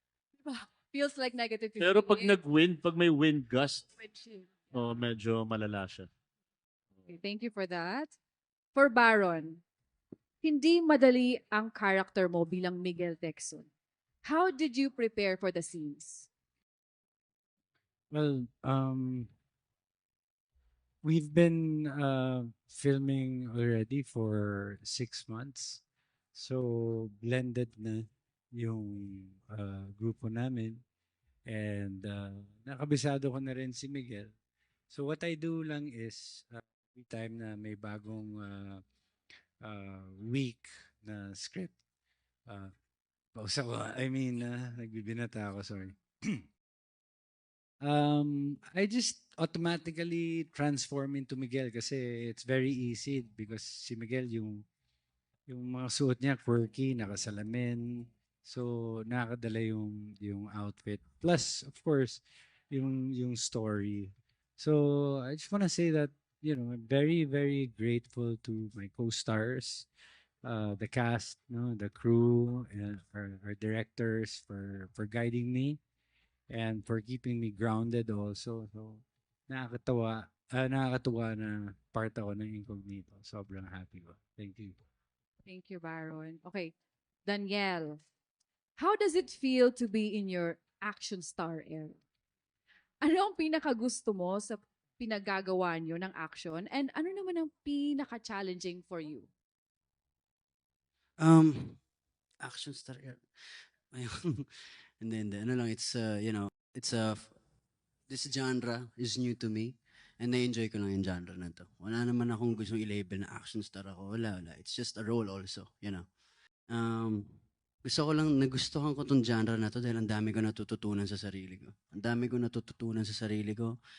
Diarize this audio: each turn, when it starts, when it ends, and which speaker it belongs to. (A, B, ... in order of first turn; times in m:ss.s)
0:00.4-0:02.4 A
0:01.8-0:03.9 B
0:04.0-0:04.5 A
0:04.7-0:06.1 B
0:07.1-0:08.1 A
0:08.8-0:09.6 A
0:10.4-0:13.7 A
0:14.2-0:16.3 A
0:18.1-0:19.3 C
0:21.0-0:25.8 C
0:26.3-0:30.8 C
0:31.5-0:34.3 C
0:34.9-0:38.8 C
0:39.6-0:41.8 C
0:43.4-0:46.4 C
0:47.8-0:54.6 C
0:55.5-1:09.9 C
1:10.4-1:15.8 C
1:16.5-1:24.8 C
1:25.5-1:26.7 A
1:27.3-1:28.0 A
1:28.8-1:32.0 A
1:33.0-1:39.3 A
1:41.2-1:41.8 D
1:42.4-1:47.4 D
1:48.1-1:56.0 D
1:56.7-2:03.8 D